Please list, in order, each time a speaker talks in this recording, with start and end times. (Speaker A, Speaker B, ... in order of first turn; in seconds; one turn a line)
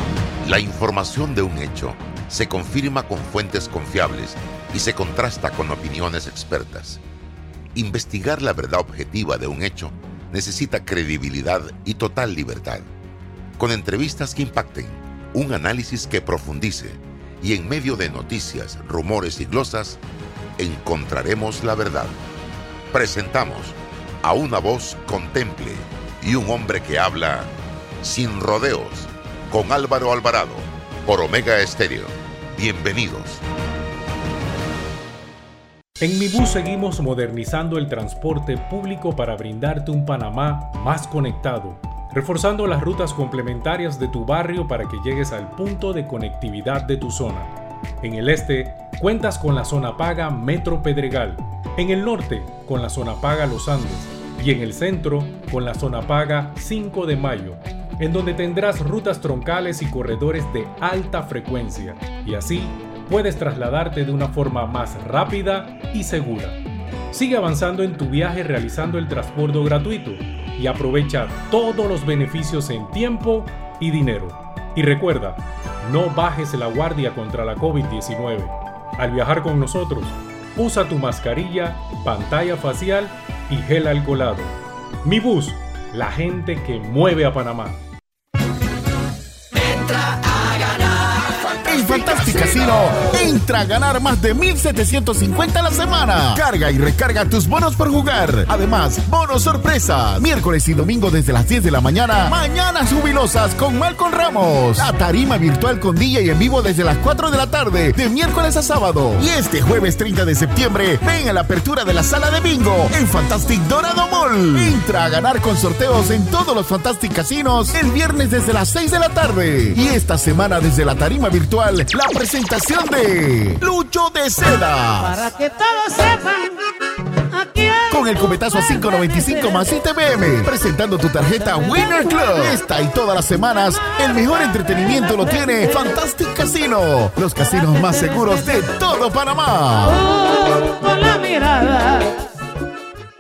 Speaker A: 0.4-7.0
Speaker A: 7.7-12.9
Speaker A: 13.6-20.0
Speaker A: 20.6-22.1
Speaker A: 22.9-27.5
Speaker A: 28.0-33.4
Speaker B: 36.0-66.6
Speaker B: 67.1-87.8
Speaker C: 91.5-125.1
Speaker D: 125.1-126.5
Speaker D: 127.4-127.8
Speaker C: 127.9-140.0
Speaker D: 140.1-142.1